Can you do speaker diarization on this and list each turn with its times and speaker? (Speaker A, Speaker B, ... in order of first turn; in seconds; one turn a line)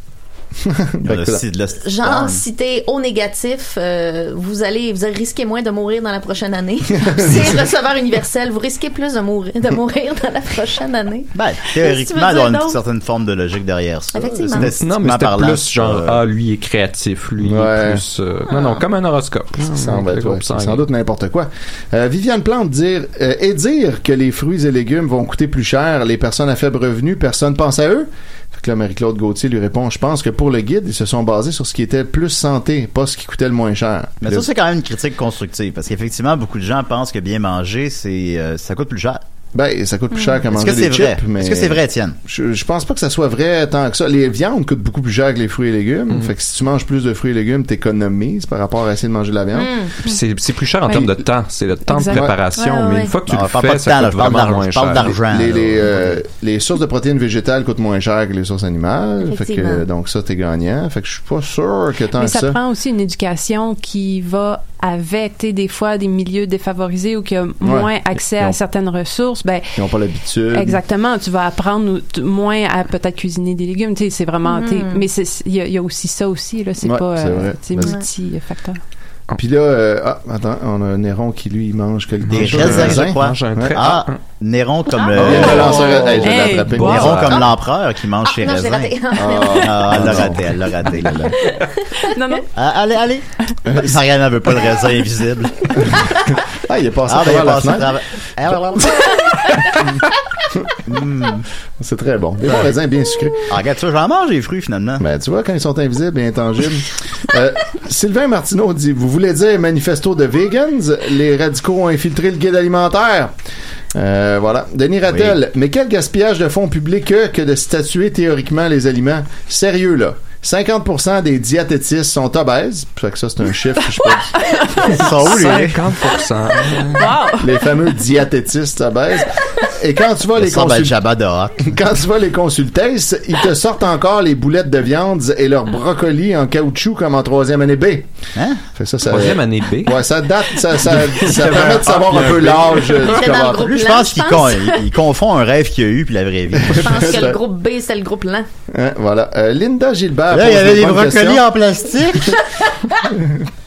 Speaker A: 0.6-1.4
Speaker B: 1.0-2.4
Speaker C: 1.7-12.8
Speaker A: 7.0-7.6
Speaker B: 11.3-16.2
Speaker C: 14.1-14.7
Speaker A: 14.4-14.7
Speaker D: 14.8-20.8
Speaker A: 17.4-18.0
Speaker A: 19.6-34.5
Speaker B: 34.2-39.2
Speaker A: 39.5-49.7
Speaker C: 40.1-40.4
Speaker B: 40.5-42.2
Speaker C: 49.5-49.9
Speaker D: 50.0-55.8
Speaker E: 51.9-52.2
Speaker C: 52.6-53.1
Speaker B: 53.3-56.1
Speaker A: 55.1-62.6
Speaker C: 59.2-59.9
Speaker E: 62.1-69.7
Speaker A: 67.6-68.5
Speaker A: 69.8-70.8
Speaker E: 70.5-78.8
Speaker C: 74.4-75.0
Speaker A: 76.8-78.0
Speaker A: 79.4-83.8
Speaker D: 82.2-84.2
Speaker B: 82.3-88.9
Speaker C: 84.9-86.4
Speaker A: 85.1-87.4
Speaker E: 86.2-87.3
Speaker C: 88.2-90.2
Speaker A: 89.2-91.4
Speaker B: 89.6-91.3
Speaker C: 91.5-92.0
Speaker E: 92.0-92.4
Speaker B: 92.5-95.9
Speaker A: 93.7-94.0
Speaker A: 95.9-97.9
Speaker B: 97.1-99.1
Speaker A: 98.5-99.0
Speaker B: 100.8-101.5
Speaker A: 101.8-103.5
Speaker B: 102.5-102.7
Speaker B: 103.5-105.0
Speaker A: 105.0-113.3
Speaker A: 113.9-124.4
Speaker B: 115.0-115.4
Speaker E: 124.0-125.0
Speaker B: 124.8-125.8
Speaker D: 125.0-127.1
Speaker E: 126.9-127.6
Speaker A: 127.4-130.9
Speaker B: 130.3-131.6
Speaker A: 131.6-138.1
Speaker B: 138.3-138.6
Speaker A: 138.7-143.7
Speaker D: 139.1-143.2
Speaker C: 143.0-144.8
Speaker B: 143.5-147.2
Speaker A: 146.6-147.4
Speaker C: 146.7-148.5
Speaker A: 148.7-151.4
Speaker B: 150.3-152.4
Speaker A: 152.9-153.5